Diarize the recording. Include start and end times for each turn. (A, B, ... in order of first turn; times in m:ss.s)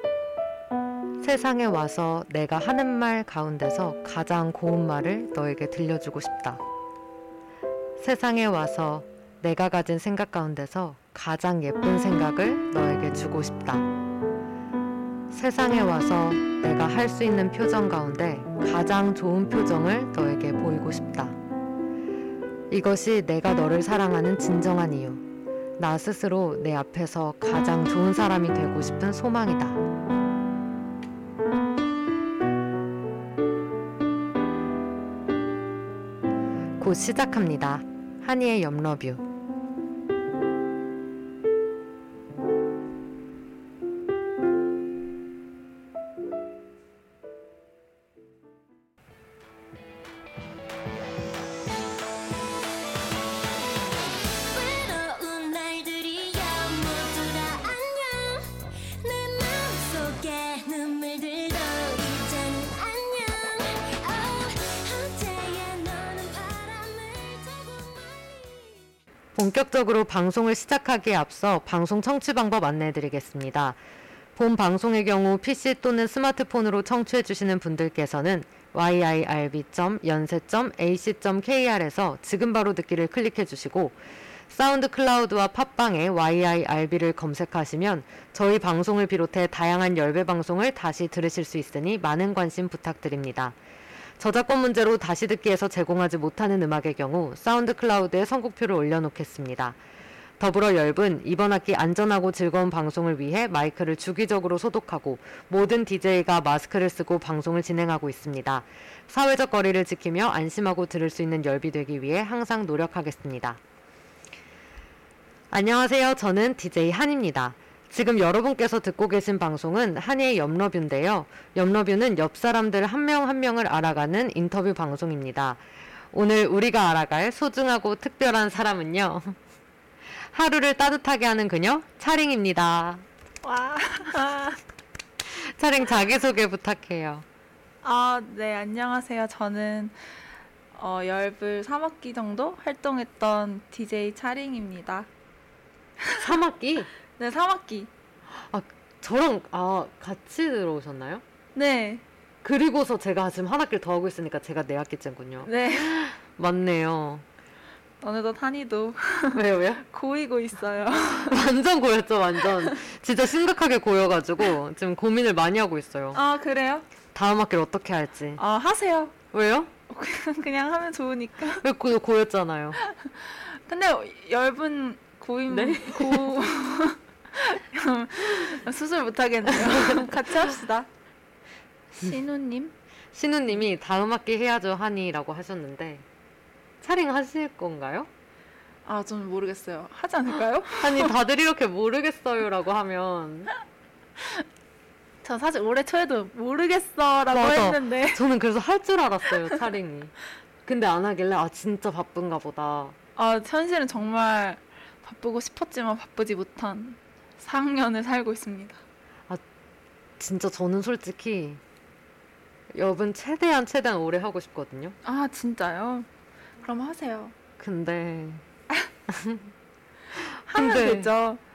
0:01.2-0:06.6 A
0:08.0-0:13.9 A
0:15.3-0:21.4 A
0:22.7-0:25.2 A
0:25.8-0:29.8 A
0:36.8-0:39.3 A
0:54.3-1:09.0 B
1:09.4-1:13.8 A
1:14.4-1:33.6 A
1:34.2-1:39.8 A
1:40.4-1:53.6 A
1:55.5-2:05.6 A
2:06.1-2:09.4 A
2:10.3-2:13.0 A
2:13.4-2:14.6 C
2:15.4-2:17.2 A
2:17.8-2:20.0 C
2:20.7-2:25.1 C
2:26.2-2:26.9 A
2:27.2-2:27.9 C
2:28.3-2:31.2 A
2:31.6-2:32.0 C
2:32.4-2:37.2 A
2:35.4-2:36.0 C
2:38.0-2:41.4 C
2:39.3-2:39.8 A
2:41.3-2:46.2 A
2:46.1-2:46.8 C
2:47.2-2:48.4 A
2:48.4-2:49.2 C
2:49.3-2:49.7 A
2:49.9-2:51.6 C
2:51.6-2:52.8 A
2:53.3-3:00.9 C
2:55.5-2:56.5 A
2:59.5-3:00.3 A
3:01.9-3:02.7 C
3:03.1-3:06.0 A
3:06.8-3:08.1 A
3:08.9-3:11.1 C
3:10.8-3:13.5 A
3:15.2-3:18.2 C
3:17.3-3:20.1 A
3:20.7-3:23.0 A
3:23.2-3:28.8 C
3:30.2-3:31.6 A
3:32.7-3:35.0 A
3:35.0-3:36.1 C
3:36.6-3:37.3 C
3:37.6-3:38.4 A
3:39.1-3:39.5 A
3:40.2-3:41.1 A
3:40.5-3:41.4 C